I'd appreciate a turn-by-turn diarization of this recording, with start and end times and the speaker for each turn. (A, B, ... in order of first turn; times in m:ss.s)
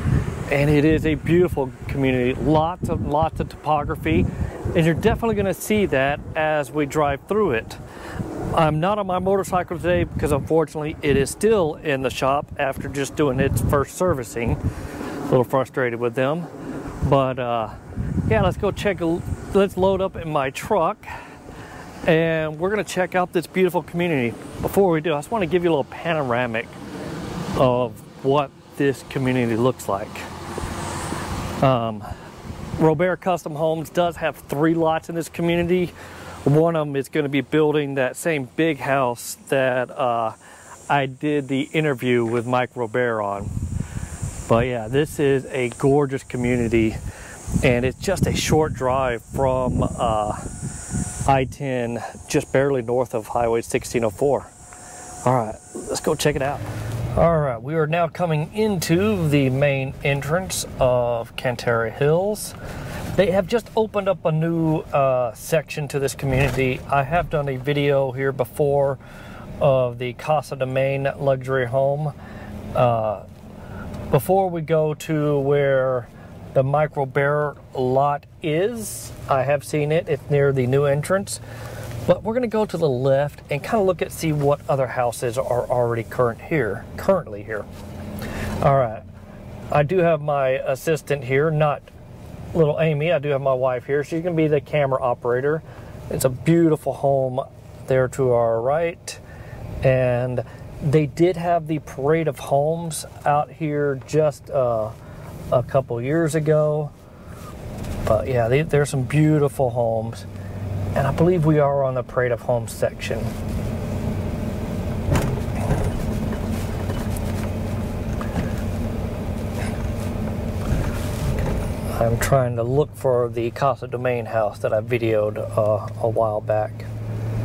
0:00.5-0:07.8 A
0:08.5-0:14.6 A
0:15.2-0:16.5 A
0:17.0-0:17.8 A
0:18.3-0:21.1 A
0:22.0-0:26.8 A
0:27.5-0:30.3 A
0:31.6-0:32.1 A
0:32.8-0:40.4 A
0:40.9-0:43.5 A
0:44.5-0:47.0 A
0:47.6-0:50.4 A
0:51.2-0:54.5 A
0:55.2-1:02.6 A
1:03.1-1:09.0 A
1:09.6-1:12.1 A
1:12.7-1:13.2 A
1:14.1-1:21.4 A
1:22.0-1:27.6 A
1:28.6-1:29.0 A
1:29.7-1:31.9 A
1:32.5-1:39.2 A
1:39.8-1:44.9 A
1:45.5-1:46.9 A
1:48.0-1:50.3 A
1:50.9-1:53.3 A
2:01.9-2:06.9 A